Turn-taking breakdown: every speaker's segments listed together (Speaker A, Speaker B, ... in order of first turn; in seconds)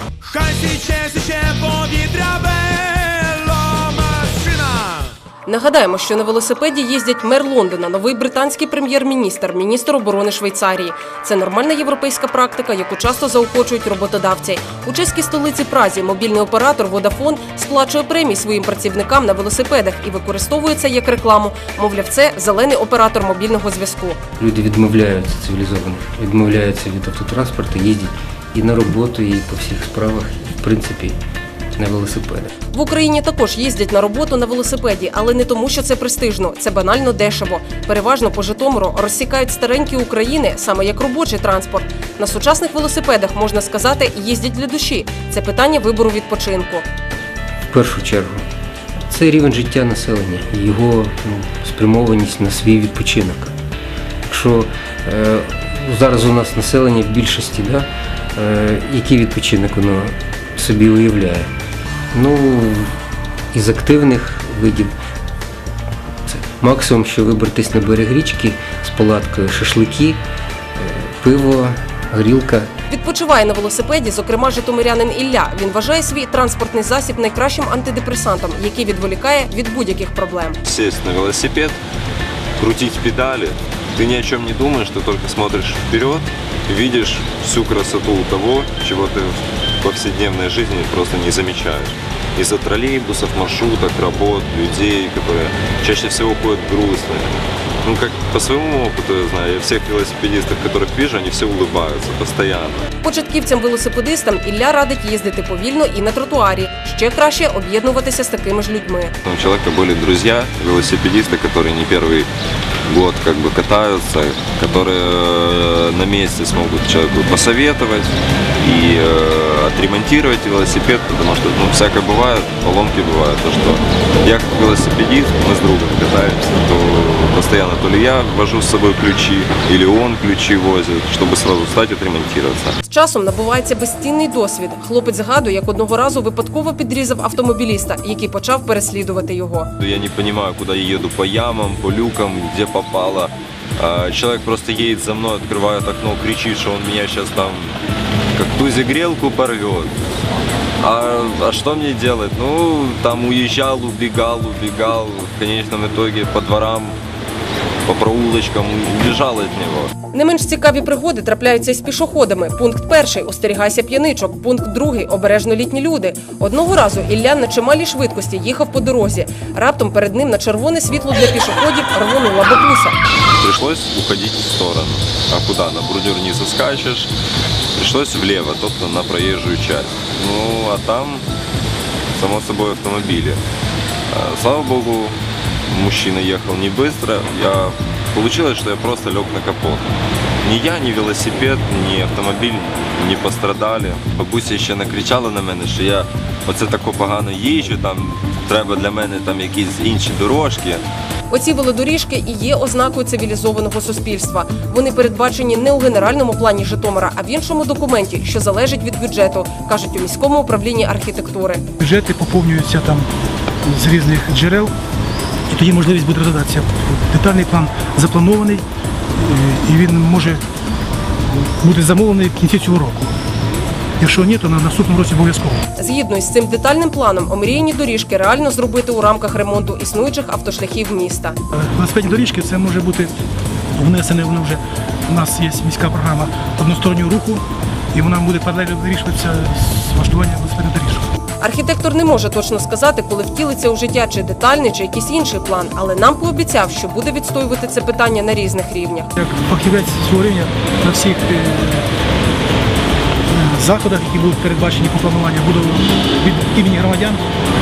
Speaker A: 0.2-5.2
Speaker B: 5.5-24.2, 32.7-46.8, 72.9-80.6, 103.0-109.1, 132.9-139.7, 160.1-172.9, 201.3-211.6, 225.8-231.4, 241.4-249.1
Speaker C: 24.4-31.2, 31.8-32.5, 47.7-48.4, 49.1-53.5, 54.3-61.5, 62.1-62.9, 63.5-64.9, 66.3-70.2, 70.8-72.7
Speaker D: 80.6-81.8, 82.6-102.8, 109.3-112.3, 112.9-132.8, 139.8-147.8, 148.3-150.0, 150.8-157.0, 157.9-159.9, 173.4-177.1, 177.8-181.2, 182.1-183.4, 184.1-189.9, 190.4-200.8
Speaker E: 211.8-213.1, 213.6-214.7, 215.5-218.6, 219.2-220.4, 221.3-223.1, 224.0-225.6, 231.5-233.1, 233.8-237.4, 237.9-241.1, 249.2-251.9, 253.3-257.2